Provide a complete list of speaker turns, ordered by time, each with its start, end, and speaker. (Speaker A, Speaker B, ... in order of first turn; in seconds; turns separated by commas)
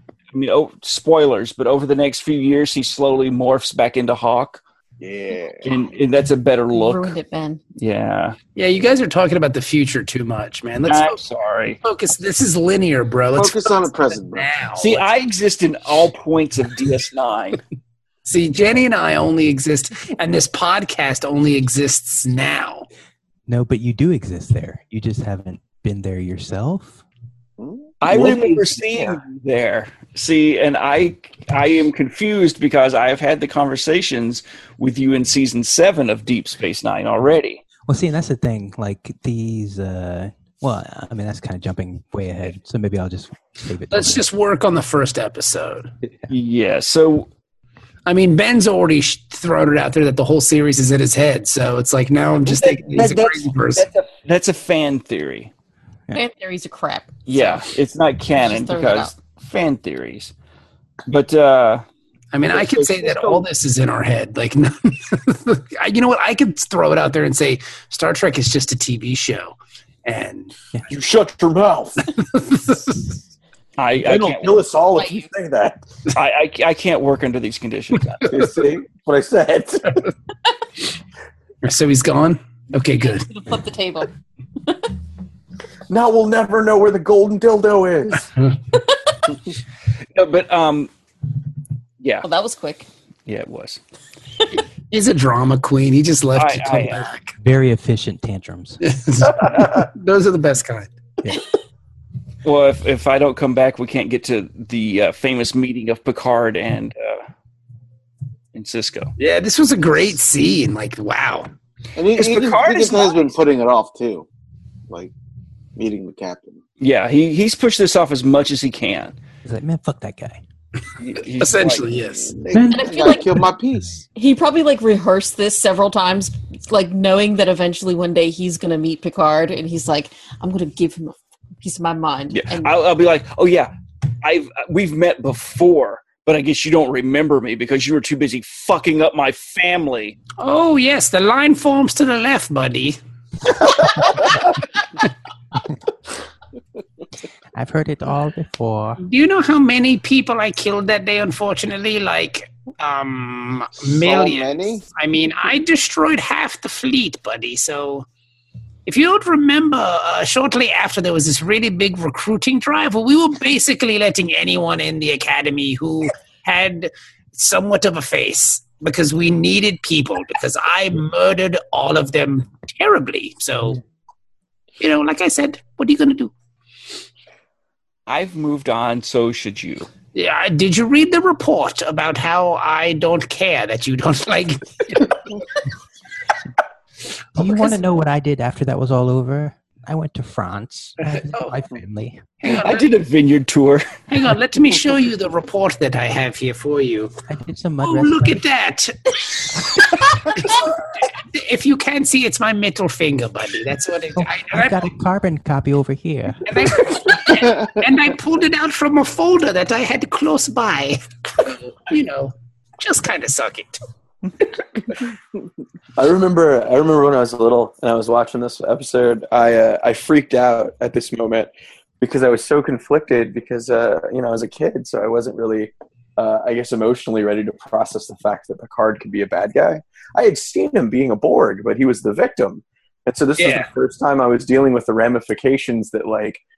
Speaker A: 0.3-4.6, Speaker B: 5.0-5.8, Speaker A: 5.6-7.2, Speaker C: 6.7-7.6, Speaker A: 7.8-8.4, Speaker D: 8.6-11.2, Speaker A: 10.8-11.8, Speaker D: 11.8-15.1, Speaker B: 13.3-14.5, Speaker A: 14.8-17.6, Speaker D: 18.2-22.9, Speaker E: 23.5-27.0, Speaker B: 27.6-28.6, Speaker A: 28.0-37.6, Speaker E: 37.9-44.2, Speaker D: 43.9-45.9, Speaker A: 46.3-47.3, Speaker D: 48.0-53.9, Speaker A: 52.5-55.5, Speaker C: 56.1-57.6, Speaker A: 57.3-60.3, Speaker C: 58.4-59.1, Speaker A: 61.0-61.8, Speaker D: 62.3-70.5, Speaker A: 62.5-63.4, Speaker F: 70.9-72.0, Speaker D: 72.2-73.1, Speaker A: 73.8-74.6, Speaker F: 74.0-75.8, Speaker C: 74.9-75.3, Speaker A: 76.1-78.2, Speaker F: 78.3-80.0, Speaker D: 81.6-83.2, Speaker C: 83.0-84.1, Speaker F: 85.9-88.3, Speaker A: 90.1-90.9, Speaker A: 92.0-92.2, Speaker C: 92.2-92.9, Speaker A: 93.2-93.8, Speaker D: 94.9-97.3, Speaker A: 96.3-97.1, Speaker E: 97.4-98.8, Speaker D: 98.8-100.9, Speaker A: 102.4-107.2, Speaker A: 108.5-109.1, Speaker D: 109.2-111.5, Speaker B: 112.0-114.3, Speaker A: 112.1-113.2, Speaker B: 115.8-116.6, Speaker A: 116.8-119.1, Speaker E: 119.4-120.4, Speaker A: 121.0-121.9, Speaker D: 121.4-122.4, Speaker B: 122.2-124.0, Speaker E: 122.5-123.8, Speaker C: 122.7-123.3, Speaker C: 124.2-132.7, Speaker A: 132.3-133.7, Speaker A: 134.2-140.2, Speaker D: 140.4-143.0, Speaker E: 147.5-149.0, Speaker D: 149.0-158.1, Speaker B: 153.9-154.8, Speaker D: 158.8-173.8, Speaker D: 174.8-176.3, Speaker A: 178.1-179.9, Speaker D: 180.1-185.2, Speaker E: 187.3-192.2, Speaker D: 191.1-191.6, Speaker D: 192.4-192.9, Speaker A: 192.5-193.9, Speaker D: 194.1-197.1, Speaker E: 197.3-198.4, Speaker D: 197.8-204.8, Speaker E: 204.1-206.5, Speaker D: 206.4-213.8, Speaker B: 207.4-207.7, Speaker F: 216.0-236.4, Speaker D: 233.4-233.7